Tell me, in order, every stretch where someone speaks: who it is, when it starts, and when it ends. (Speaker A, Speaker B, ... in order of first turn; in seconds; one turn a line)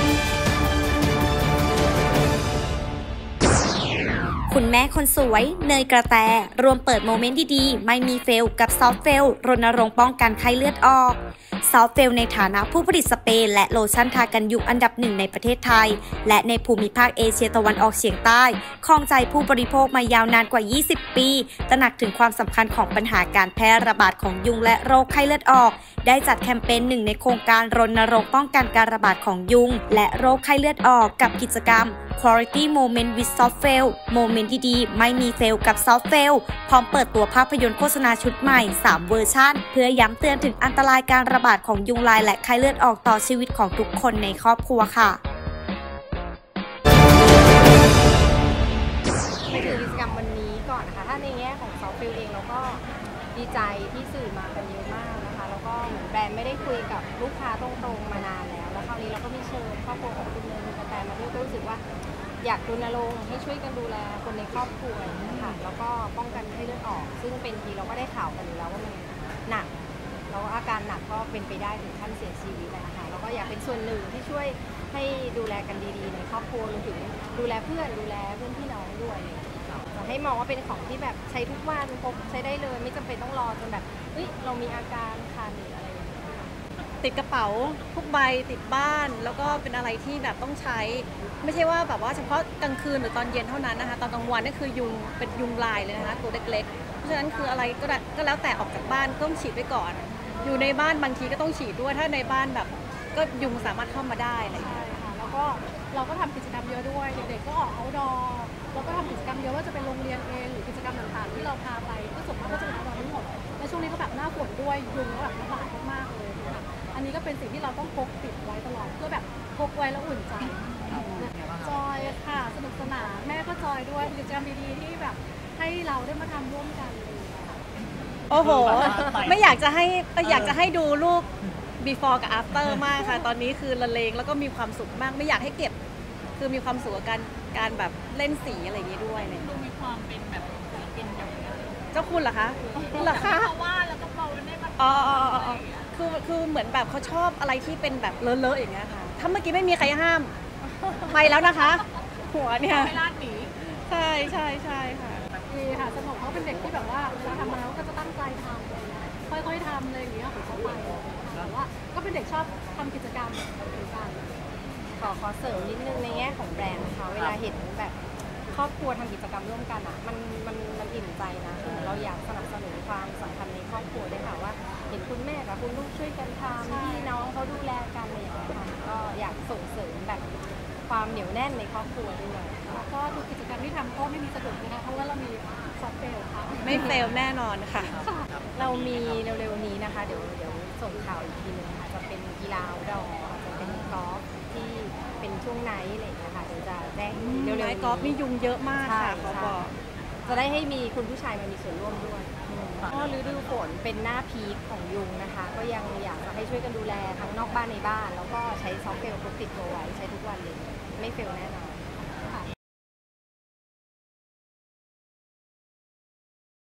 Speaker A: 4.5-45.2
Speaker B: 49.5-52.8
Speaker B: 53.3-61.8
Speaker B: 62.4-69.7
Speaker B: 70.3-86.5
Speaker C: 87.0-104.8
Speaker D: 104.8-127.6
Speaker C: 128.3-135.8
Speaker C: 136.4-139.6
Speaker E: 139.6-141.7
Speaker C: 141.9-143.6
Speaker E: 143.6-144.8
Speaker C: 144.8-150.3
Speaker C: 150.9-155.3
Speaker E: 153.0-153.4
Speaker D: 155.5-164.3
Speaker B: 165.0-180.3
Speaker D: 176.6-177.1
Speaker B: 180.9-182.6
Speaker D: 182.7-186.9
Speaker C: 186.6-188.0
Speaker D: 188.0-188.3
Speaker B: 188.5-198.2
Speaker C: 197.1-199.8
Speaker B: 198.8-199.6
Speaker B: 200.2-211.9
Speaker C: 202.5-202.9